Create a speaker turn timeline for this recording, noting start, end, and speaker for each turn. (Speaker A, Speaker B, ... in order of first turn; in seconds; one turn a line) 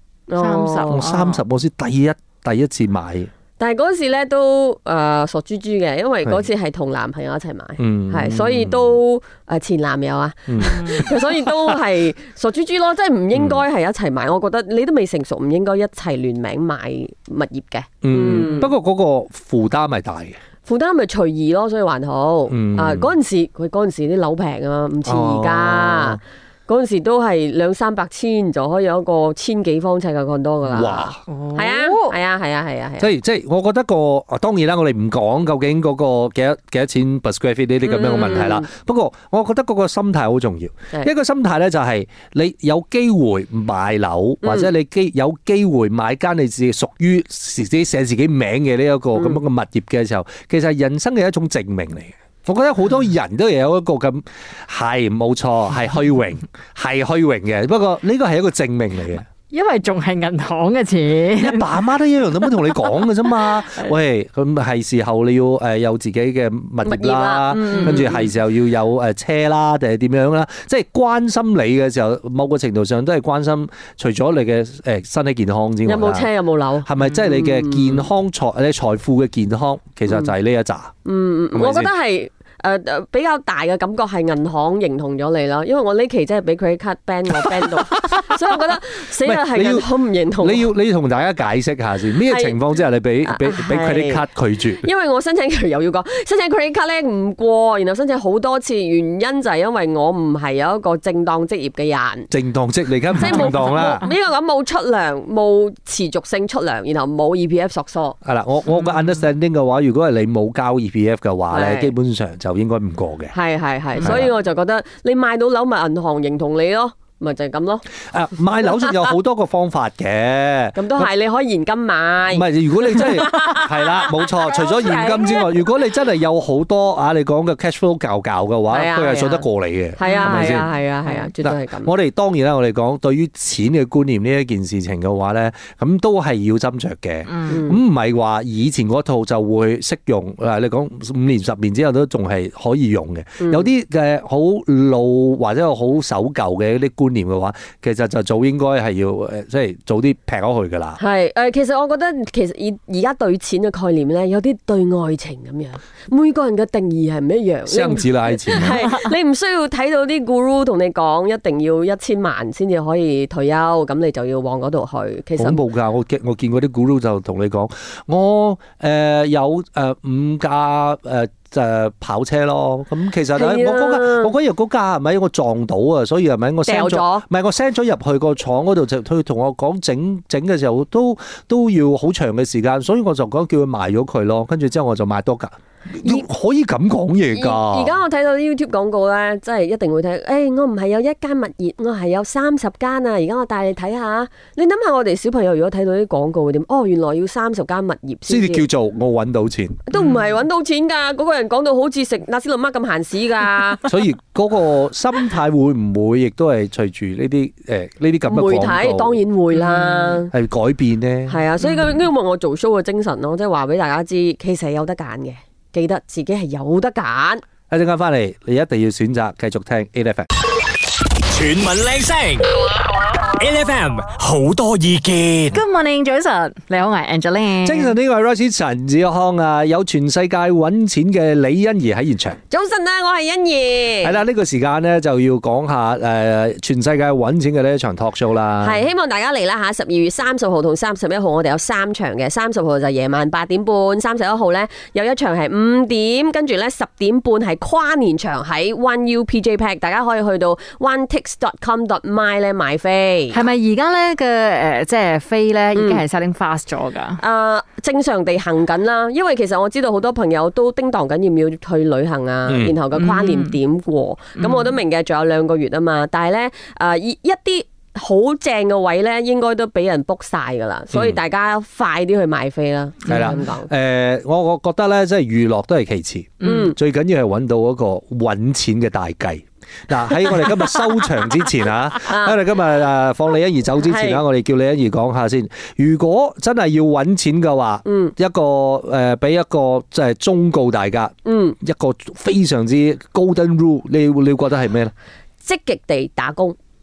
Speaker A: 0.3-1.0
Speaker B: 0.4-1.4
Speaker C: 0.9-3.3
Speaker A: 3.6-18.7
Speaker C: 7.8-9.0
Speaker C: 10.5-11.7
Speaker C: 13.3-13.6
Speaker C: 18.0-20.4
Speaker A: 20.6-33.1
Speaker C: 22.5-23.1
Speaker C: 25.1-26.2
Speaker C: 30.7-31.2
Speaker B: 31.3-32.1
Speaker C: 33.0-59.2
Speaker A: 37.8-38.7
Speaker A: 44.4-44.7
Speaker A: 49.1-49.4
Speaker B: 59.5-61.7
Speaker C: 61.4-76.3
Speaker B: 63.5-63.8
Speaker A: 66.8-68.3
Speaker B: 67.8-68.1
Speaker A: 75.8-78.0
Speaker C: 76.8-80.9
Speaker A: 81.0-90.7
Speaker C: 81.5-81.9
Speaker C: 87.5-88.3
Speaker C: 89.2-89.9
Speaker C: 90.4-94.8
Speaker A: 92.3-92.5
Speaker A: 93.2-94.2
Speaker A: 94.8-102.3
Speaker C: 102.3-104.0
Speaker A: 103.2-108.2
Speaker B: 103.3-104.0
Speaker C: 108.2-113.3
Speaker A: 111.5-111.9
Speaker A: 113.3-117.8
Speaker C: 114.0-114.3
Speaker C: 118.1-121.1
Speaker A: 120.8-125.5
Speaker C: 122.3-130.7
Speaker B: 124.8-125.2
Speaker A: 128.7-129.4
Speaker A: 130.0-131.9
Speaker B: 130.0-130.6
Speaker C: 131.4-151.0
Speaker B: 137.3-137.6
Speaker A: 137.5-137.8
Speaker A: 143.4-143.7
Speaker A: 151.0-165.6
Speaker C: 157.7-158.8
Speaker C: 165.4-187.9
Speaker A: 173.3-174.3
Speaker A: 176.7-177.2
Speaker A: 187.3-198.6
Speaker C: 198.3-199.8
Speaker A: 199.9-203.8
Speaker B: 199.9-200.2
Speaker C: 203.8-209.2
Speaker A: 208.3-210.3
Speaker B: 209.6-210.2
Speaker C: 210.3-211.4
Speaker A: 211.3-217.4
Speaker B: 211.6-211.9
Speaker C: 217.7-220.3
Speaker D: 221.3-222.5
Speaker D: 223.3-225.6
Speaker B: 225.5-227.9
Speaker C: 227.6-232.4
Speaker A: 232.5-234.2
Speaker C: 234.0-238.8
Speaker A: 238.6-253.4
Speaker B: 253.3-257.2
Speaker A: 255.7-256.0
Speaker A: 257.2-273.7
Speaker C: 262.5-262.8
Speaker B: 262.9-263.6
Speaker B: 264.4-264.8
Speaker C: 270.9-271.2
Speaker C: 273.1-294.9
Speaker B: 276.4-276.7
Speaker A: 276.4-276.7
Speaker A: 282.0-282.4
Speaker A: 283.8-284.2
Speaker A: 287.9-288.1
Speaker A: 291.2-291.6
Speaker A: 295.4-296.6